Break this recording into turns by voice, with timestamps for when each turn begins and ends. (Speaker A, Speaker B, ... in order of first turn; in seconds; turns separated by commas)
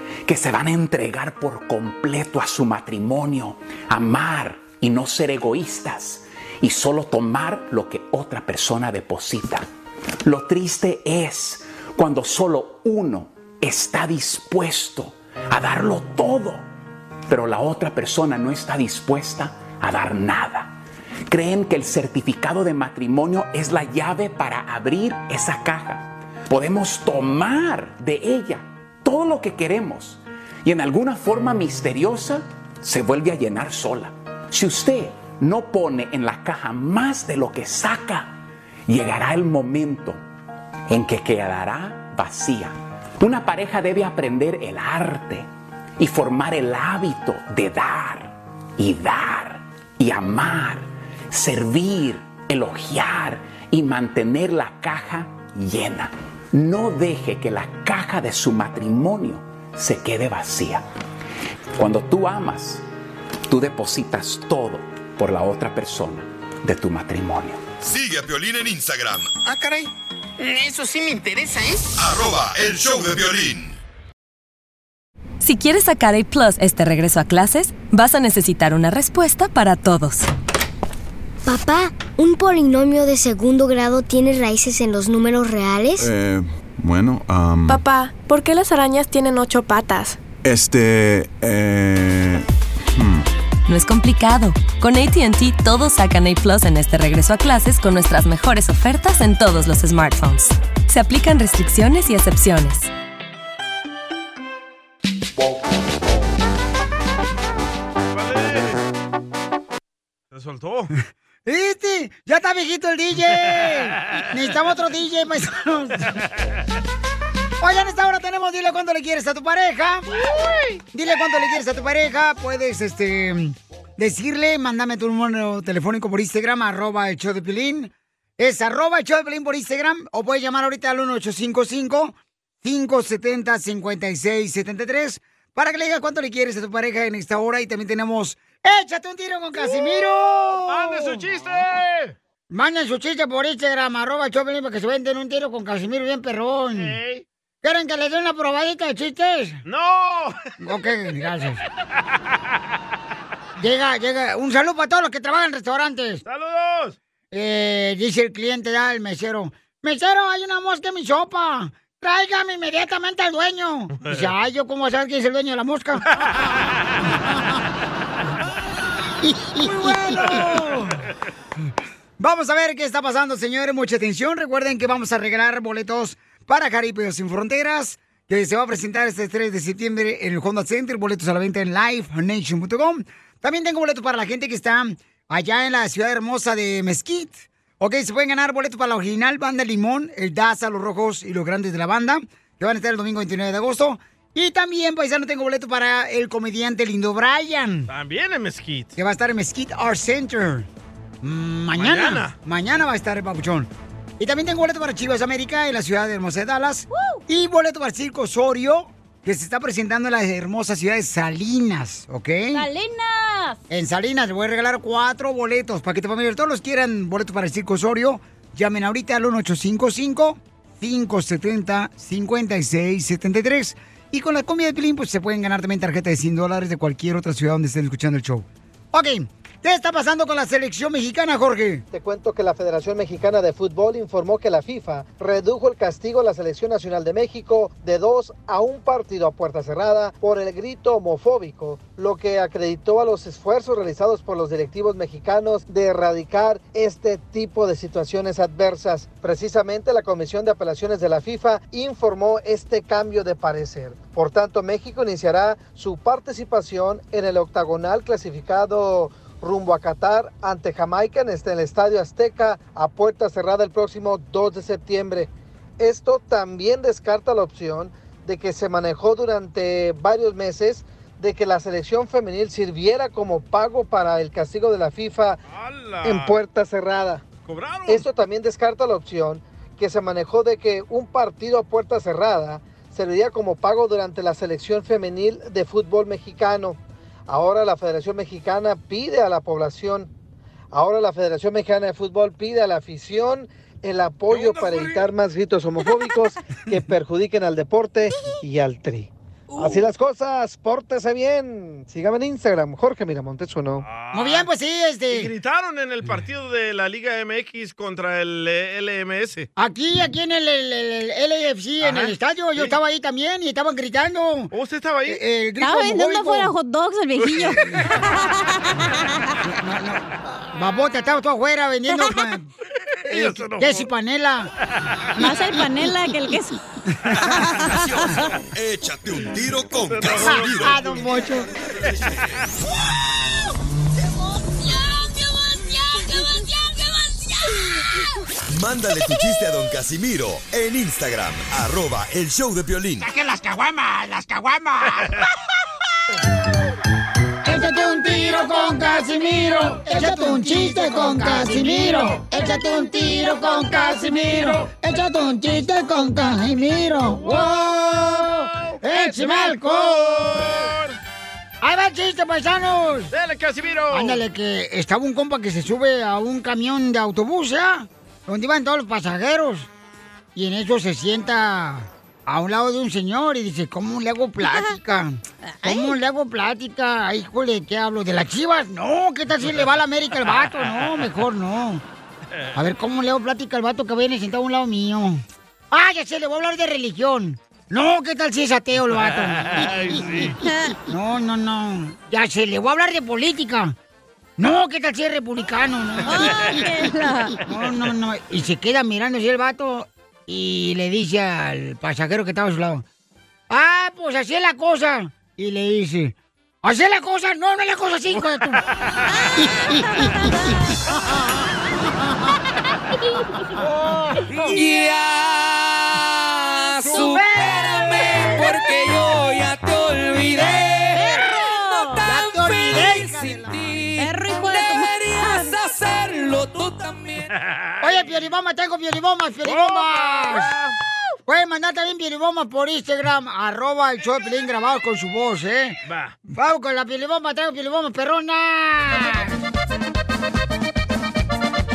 Speaker A: 0.2-9.7, Speaker A: 10.2-16.6, Speaker A: 17.3-20.8, Speaker A: 21.3-40.2, Speaker A: 40.9-45.5, Speaker A: 46.0-60.8, Speaker A: 61.8-62.8, Speaker A: 63.5-67.6, Speaker B: 67.8-69.4, Speaker B: 72.0-73.8, Speaker C: 75.4-80.3, Speaker D: 81.4-86.1, Speaker E: 86.0-87.8, Speaker F: 87.7-90.2, Speaker E: 90.4-93.3, Speaker C: 93.7-102.9, Speaker G: 108.1-108.8, Speaker G: 110.3-110.9, Speaker H: 111.5-116.1, Speaker G: 113.4-113.7, Speaker H: 117.6-120.1, Speaker G: 120.4-120.8, Speaker H: 120.9-141.2, Speaker G: 139.6-142.1, Speaker H: 142.5-147.0, Speaker G: 146.7-147.2, Speaker H: 147.6-149.6, Speaker G: 149.7-150.4, Speaker H: 150.6-151.6, Speaker H: 153.6-156.2, Speaker G: 156.2-157.0, Speaker H: 157.3-166.1, Speaker G: 164.0-164.3, Speaker H: 169.6-171.0, Speaker G: 170.1-170.6, Speaker H: 172.2-197.9, Speaker G: 197.9-198.9, Speaker H: 199.0-200.7, Speaker H: 201.2-212.7, Speaker G: 201.7-202.3, Speaker I: 206.9-207.2, Speaker I: 212.5-213.6, Speaker H: 213.7-231.8, Speaker J: 231.9-275.4, Speaker G: 275.5-276.4, Speaker J: 276.0-277.2, Speaker G: 277.4-278.1, Speaker J: 277.9-290.1, Speaker J: 290.7-303.9, Speaker G: 294.3-295.0, Speaker G: 303.8-304.5, Speaker H: 304.1-305.3, Speaker G: 305.1-309.5, Speaker H: 309.6-314.5, Speaker G: 311.8-312.7, Speaker G: 314.5-315.2, Speaker H: 315.1-316.5, Speaker I: 315.6-319.4, Speaker G: 317.2-317.8, Speaker H: 317.3-317.9, Speaker H: 319.4-322.5, Speaker G: 323.0-323.9, Speaker H: 323.1-324.5, Speaker I: 325.2-326.6, Speaker H: 327.0-327.4, Speaker I: 327.2-328.1, Speaker B: 327.6-332.3, Speaker G: 329.8-331.1, Speaker H: 330.2-331.5, Speaker G: 331.7-332.4, Speaker B: 338.5-343.1, Speaker H: 343.0-345.2, Speaker H: 347.4-360.4, Speaker G: 357.2-361.0, Speaker H: 361.6-363.1, Speaker G: 363.1-364.2, Speaker H: 363.9-369.7, Speaker H: 370.4-381.8, Speaker I: 375.4-375.9, Speaker H: 382.5-390.4, Speaker G: 388.9-390.4, Speaker I: 390.4-390.7, Speaker H: 390.9-393.8, Speaker H: 394.4-396.6, Speaker I: 396.0-397.4, Speaker H: 397.5-402.8, Speaker H: 403.5-408.6, Speaker G: 408.9-409.5, Speaker I: 410.0-410.4, Speaker K: 414.4-427.3, Speaker H: 416.9-417.3, Speaker I: 420.9-422.0, Speaker H: 422.0-423.6, Speaker I: 424.0-425.6, Speaker G: 427.2-428.1, Speaker H: 427.8-430.5, Speaker G: 429.4-430.7, Speaker H: 431.3-439.4, Speaker G: 435.9-436.1